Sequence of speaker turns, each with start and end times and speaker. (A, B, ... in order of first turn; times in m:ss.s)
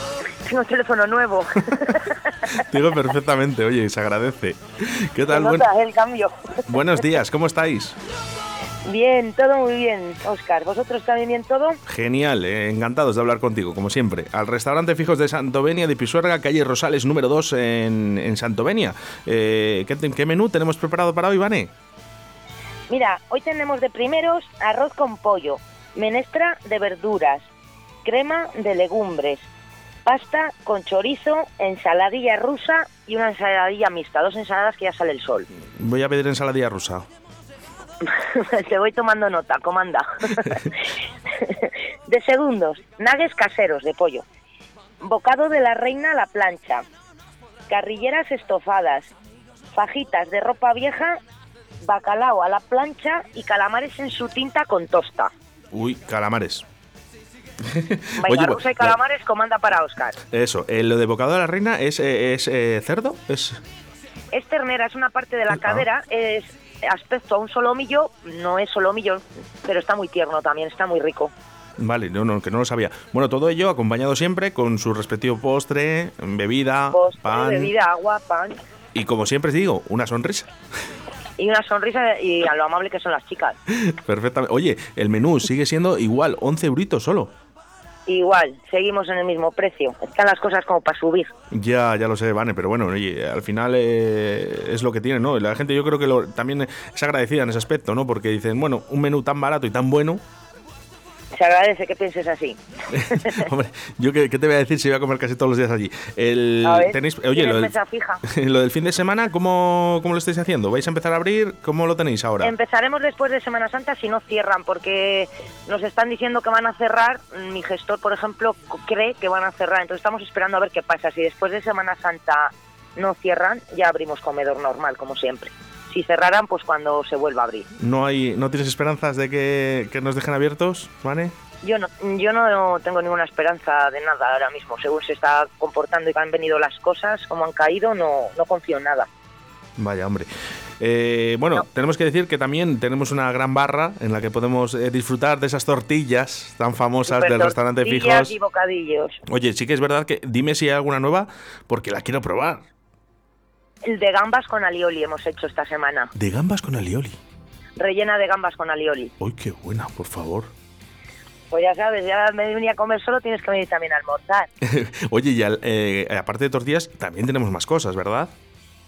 0:00.4-0:02.6 A
0:02.5-0:05.7 B
0:05.3-0:06.6 A
0:06.7-0:08.0 B
0:08.8-0:11.8 A
0:11.9-0:21.7 B
0:22.9-0:27.5 A
0:28.0-0:29.5 A
0:30.0-0:35.5 A
0:35.8-0:37.1 B
0:38.0-0:40.8 A
0:41.4-0:44.2 A
0:45.0-0:46.8 A
0:47.7-0:49.1 A
0:49.7-0:51.2 A
0:51.8-0:55.3 A
0:55.7-0:56.6 B
0:57.6-0:58.9 B
0:58.2-1:00.2 A
1:00.3-1:03.6 B
1:04.3-1:11.3 A
1:05.5-1:05.8 B
1:11.8-1:17.7 B
1:16.9-1:18.6 A
1:18.9-1:20.5 B
1:21.4-1:23.6 A
1:23.7-1:27.3 B
1:28.1-1:31.3 A
1:31.5-1:40.2 B
1:41.3-1:42.6 A
1:42.9-1:47.7 B
1:43.1-1:43.4 A
1:46.6-1:48.2 A
1:48.2-1:52.5 B
1:52.4-2:07.7 A
2:07.8-2:11.3 B
2:11.6-2:19.1 A
2:19.8-2:20.3 B
2:20.8-2:28.3 B
2:27.1-2:29.2 A
2:29.3-2:32.6 B
2:33.8-2:36.1 A
2:36.2-2:37.2 B
2:37.8-2:39.1 A
2:39.2-2:40.5 B
2:41.5-2:44.5 A
2:44.6-2:48.3 B